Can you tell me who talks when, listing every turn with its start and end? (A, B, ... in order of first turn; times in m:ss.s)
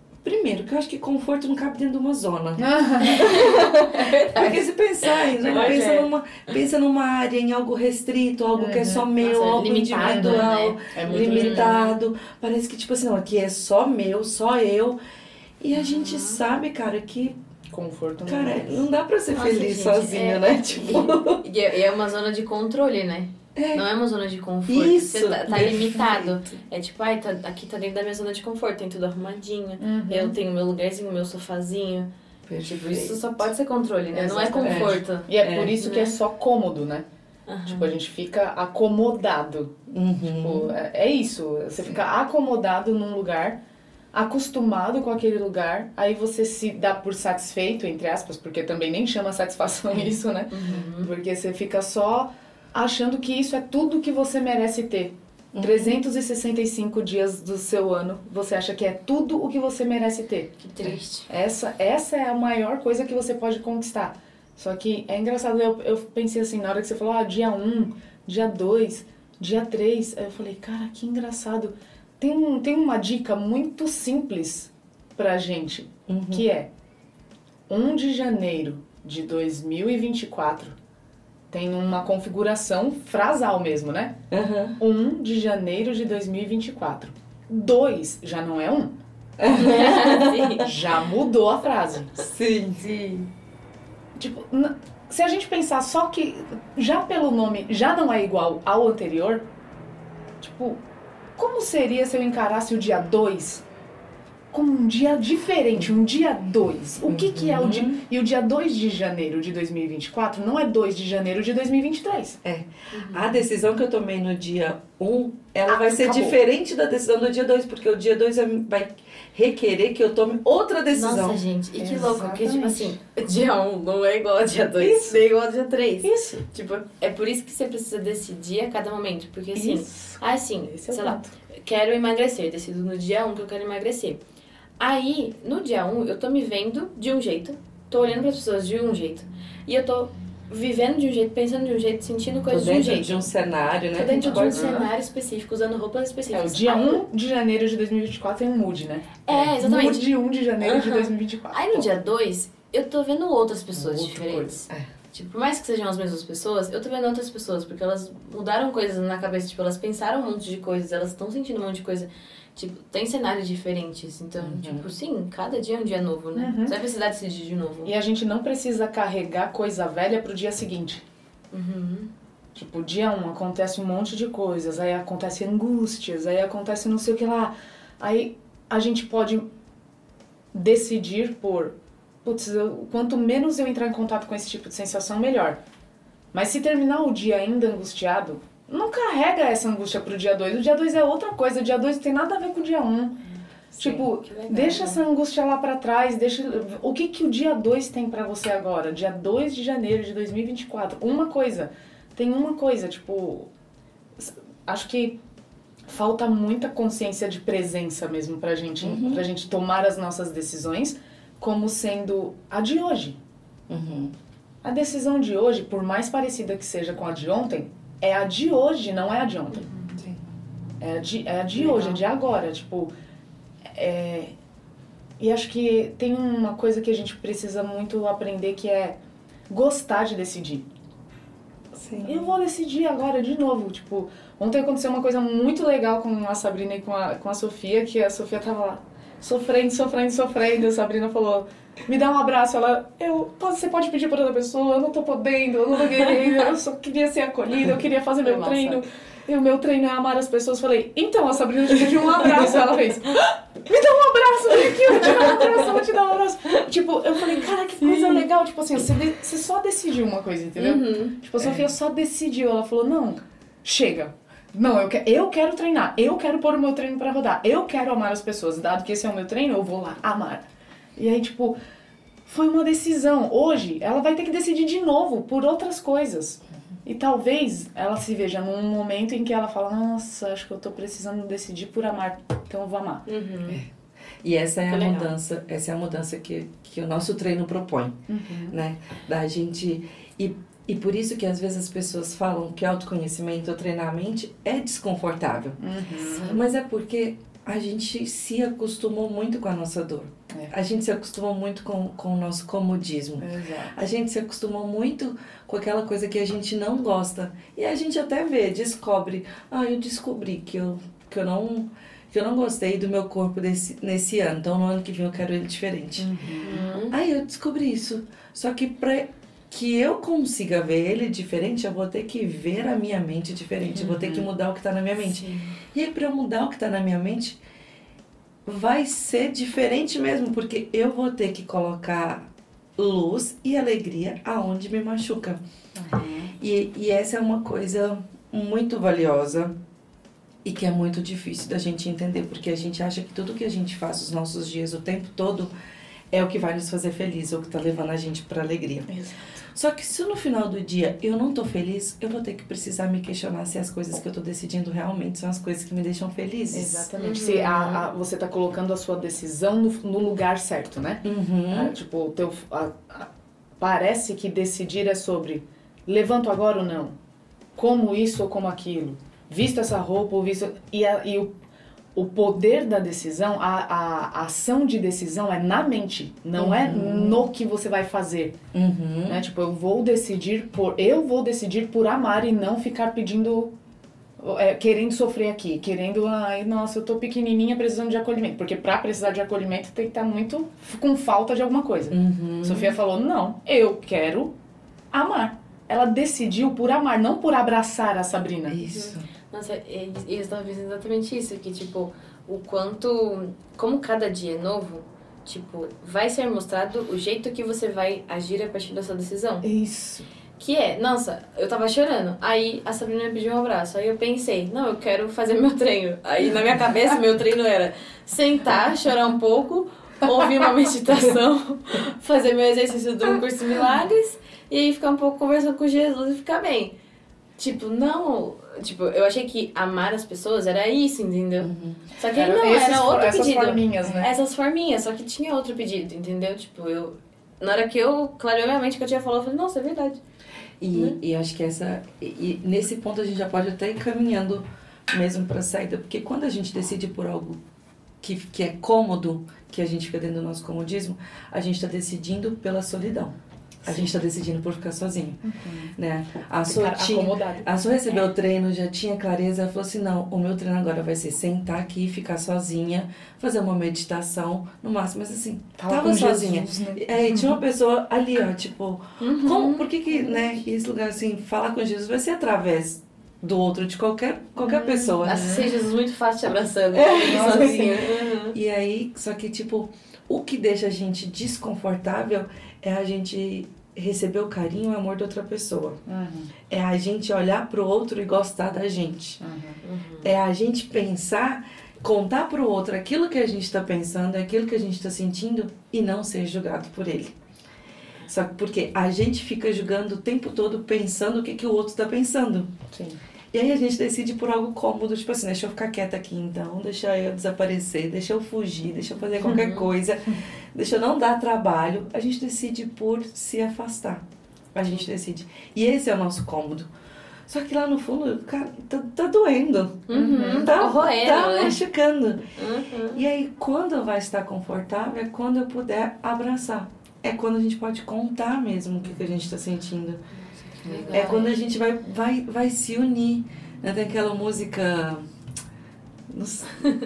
0:00.2-0:15.0 A
0:02.6-0:03.3 B
0:03.0-0:06.1 C
0:08.5-0:09.1 B
0:09.2-0:12.0 C
0:10.0-0:11.8 B
0:15.6-0:17.4 A
0:15.7-0:16.5 C
0:17.7-0:18.8 B
0:18.2-0:21.4 A
0:19.3-0:32.1 C
0:23.5-0:23.8 A
0:24.7-0:26.5 A
0:29.8-0:30.4 B
0:32.5-0:33.5 A
0:32.6-0:36.2 C
0:34.1-0:37.0 B
0:34.6-0:35.7 A
0:37.5-0:38.0 C
0:37.6-0:43.6 B
0:39.9-0:40.7 A
0:44.1-1:00.6 B
0:49.9-0:51.1 C
0:55.5-0:56.0 A
1:00.6-1:01.3 C
1:01.3-1:16.7 B
1:16.1-1:16.4 A
1:17.7-1:20.7 B
1:21.5-1:24.2 B
1:24.3-1:24.8 A
1:24.8-1:28.9 B
1:29.4-1:30.6 A
1:29.5-1:30.7 C
1:30.5-1:32.2 B
1:32.2-1:32.9 A
1:32.8-1:33.3 C
1:34.2-1:39.4 B
1:40.4-1:40.8 B
1:41.4-1:43.6 B
1:44.5-1:52.4 B
1:47.0-1:48.0 A
1:52.4-2:01.4 A
1:52.9-1:53.4 C
1:55.7-1:56.4 B
2:00.9-2:14.2 C
2:01.8-2:02.9 B
2:04.8-2:05.2 B
2:06.0-2:06.4 B
2:09.5-2:11.3 B
2:14.8-2:23.3 C
2:22.5-2:24.9 A
2:23.9-2:27.0 C
2:24.1-2:24.8 B
2:26.3-2:31.9 B
2:29.3-2:47.9 C
2:33.9-2:34.6 B
2:44.4-2:44.8 A
2:46.3-2:46.8 B
2:47.8-2:51.0 B
2:51.5-2:52.1 C
2:52.5-2:59.5 B
3:00.5-3:01.7 B
3:02.2-3:05.6 B
3:06.3-3:13.2 B
3:13.7-3:15.0 C
3:13.8-3:23.5 B
3:24.2-3:25.2 B
3:25.9-3:33.2 B
3:28.8-3:29.2 A
3:33.7-3:34.1 A
3:34.6-3:39.6 B
3:39.6-3:39.9 C
3:40.8-3:42.9 B
3:41.6-3:42.0 C
3:43.7-3:44.3 B
3:45.2-3:49.0 B
3:49.5-3:50.6 B
3:51.7-3:52.2 A
3:52.0-4:30.4 B
4:08.2-4:08.8 C
4:17.9-4:18.2 C
4:20.6-4:21.2 C
4:21.4-4:21.6 A
4:31.0-4:31.6 B
4:32.2-4:43.0 B
4:43.0-4:43.6 C
4:44.2-4:48.0 A
4:44.7-4:45.1 C
4:48.1-4:48.6 B
4:48.5-4:55.6 A
4:55.6-4:56.4 B
4:56.1-4:56.4 C
4:56.2-5:16.1 A
5:03.2-5:03.7 B
5:16.0-5:16.6 B
5:16.4-5:17.0 C
5:16.8-5:27.4 A
5:23.8-5:24.3 B
5:25.0-5:25.6 C
5:28.4-5:35.4 A
5:35.7-5:36.3 B
5:36.4-5:39.5 A
5:40.4-5:45.5 A
5:46.1-5:48.9 A
5:48.9-5:49.4 B
5:49.5-5:56.9 A
5:56.5-6:03.1 B
5:57.0-5:57.8 C
6:01.0-6:01.7 A
6:03.6-6:06.9 B
6:07.6-6:11.3 B
6:11.9-6:18.4 B
6:16.4-6:17.2 A
6:18.5-6:19.2 A
6:19.1-6:23.5 B
6:24.2-6:34.3 B
6:31.9-6:32.7 A
6:34.9-6:38.6 B
6:38.5-6:39.1 A
6:38.7-6:49.5 C
6:49.4-6:50.1 B
6:50.4-7:06.7 C
7:07.4-7:20.0 C
7:11.4-7:11.9 A
7:12.1-7:14.1 B
7:20.6-7:27.4 A
7:20.7-7:21.0 C
7:28.0-7:33.1 A
7:33.6-7:33.9 B
7:33.6-7:35.2 A
7:35.2-7:35.7 B
7:35.7-7:55.5 A
7:36.4-7:37.5 B
7:45.6-7:47.4 B
7:49.0-7:50.2 C
7:54.4-7:55.6 B
7:55.0-7:58.4 C
7:56.7-8:05.8 A
7:57.0-7:57.8 B
8:05.8-8:06.3 B
8:06.5-8:09.2 A
8:09.2-8:09.6 B
8:09.6-8:10.2 C
8:10.0-8:17.1 A
8:18.1-8:22.5 A
8:22.7-8:23.0 B
8:23.3-8:34.0 A
8:29.1-8:29.7 C
8:29.2-8:29.6 B
8:34.5-8:36.7 A
8:37.3-8:42.2 A
8:39.9-8:41.6 C
8:39.9-8:40.6 B
8:42.4-8:43.0 C
8:42.9-8:50.0 A
8:50.2-8:51.4 C
8:50.6-8:51.1 B
8:50.9-8:55.0 A
8:56.1-8:56.6 A